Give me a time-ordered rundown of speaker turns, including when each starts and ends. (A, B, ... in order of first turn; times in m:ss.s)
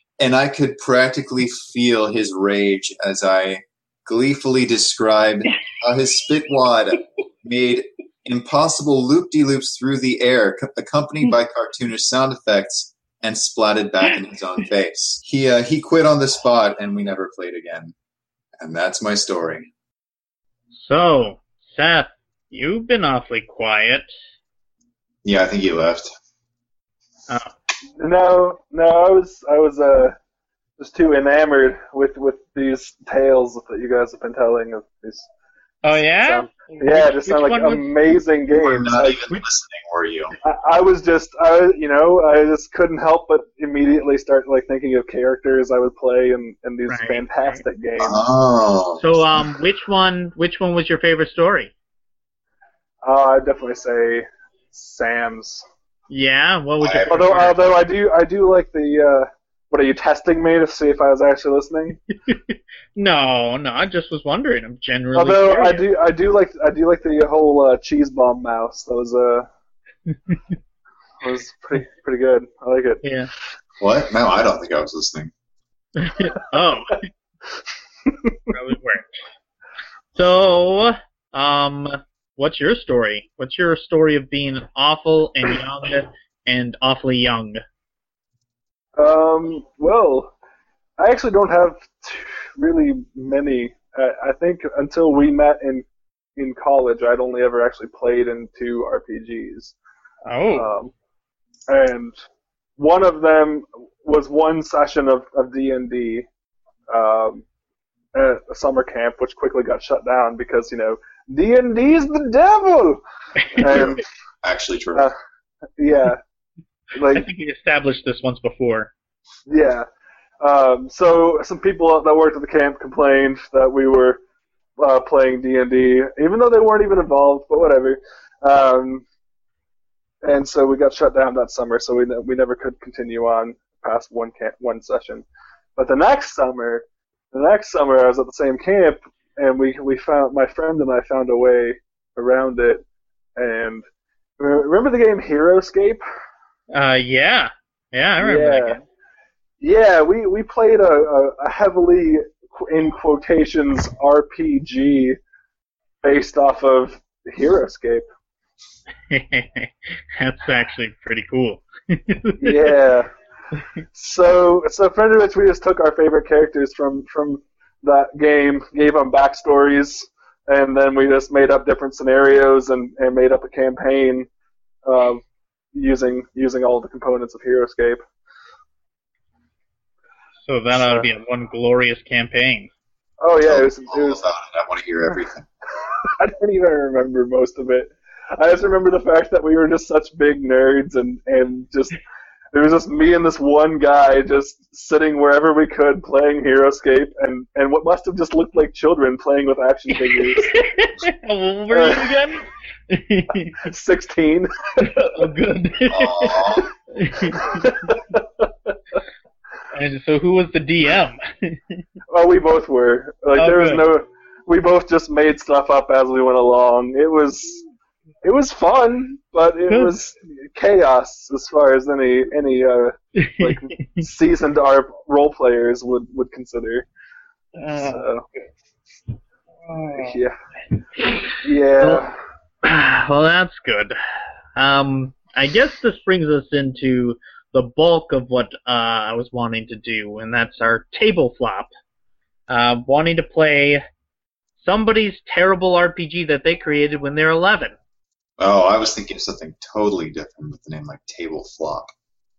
0:00.2-0:17.9 A
0:18.6-0:19.7 A
0:20.7-0:24.1 B
0:25.2-0:26.1 A
0:28.0-0:30.2 C
0:30.8-0:35.3 C
0:35.8-0:37.9 B
0:36.1-0:39.2 C
0:38.6-0:40.4 A
0:40.4-0:48.3 C
0:46.9-0:47.6 B
0:48.0-0:49.4 A
0:49.0-0:51.7 B
0:53.0-0:55.6 C
0:56.1-0:57.7 B
0:56.8-0:57.2 A
0:57.1-1:02.0 C
1:02.3-1:05.9 B
1:05.2-1:09.5 C
1:11.2-1:13.0 C
1:13.0-1:13.3 B
1:13.8-1:15.3 A
1:16.0-1:17.0 B
1:18.5-1:19.2 B
1:20.2-1:27.6 B
1:29.0-1:30.3 C
1:31.0-1:35.9 C
1:36.4-1:39.8 C
1:40.3-1:40.7 B
1:40.5-1:40.9 C
1:41.7-1:42.2 C
1:42.8-1:46.3 C
1:46.9-1:47.4 C
1:48.2-1:53.0 C
1:53.5-1:54.0 C
1:53.7-1:55.1 A
1:53.7-1:54.0 B
1:55.8-1:56.2 C
1:57.0-1:57.3 C
1:57.1-1:58.9 B
1:59.5-1:59.9 C
2:00.4-2:04.2 C
2:04.8-2:09.0 C
2:10.2-2:15.2 C
2:15.8-2:22.8 C
2:23.4-2:23.8 C
2:24.4-2:26.0 C
2:26.7-2:28.8 B
2:28.2-2:28.8 C
2:29.6-2:35.2 C
2:36.0-2:38.0 C
2:39.1-2:42.7 B
2:42.4-2:43.1 C
2:43.9-2:54.3 C
2:54.8-2:55.2 C
2:55.7-2:58.0 C
3:00.5-3:02.7 B
3:00.7-3:01.1 C
3:03.2-3:04.2 C
3:03.4-3:05.5 A
3:06.0-3:12.0 C
3:12.5-3:20.5 C
3:19.9-3:23.6 B
3:21.7-3:22.2 C
3:23.6-3:25.1 C
3:24.8-3:28.0 B
3:25.9-3:26.7 A
3:27.5-3:28.2 C
3:29.7-3:31.8 B
3:32.1-3:37.6 C
3:33.4-3:33.8 B
3:38.2-3:46.9 C
3:43.2-3:44.0 B
3:47.6-3:48.5 B
3:47.8-3:48.2 C
3:49.7-3:50.2 B
3:50.0-3:50.4 C
3:51.0-3:52.0 B
3:51.4-3:52.2 C
3:52.6-3:54.0 B
3:54.6-4:01.7 B
4:02.5-4:03.8 B
4:04.6-4:07.8 B
4:08.4-4:11.9 A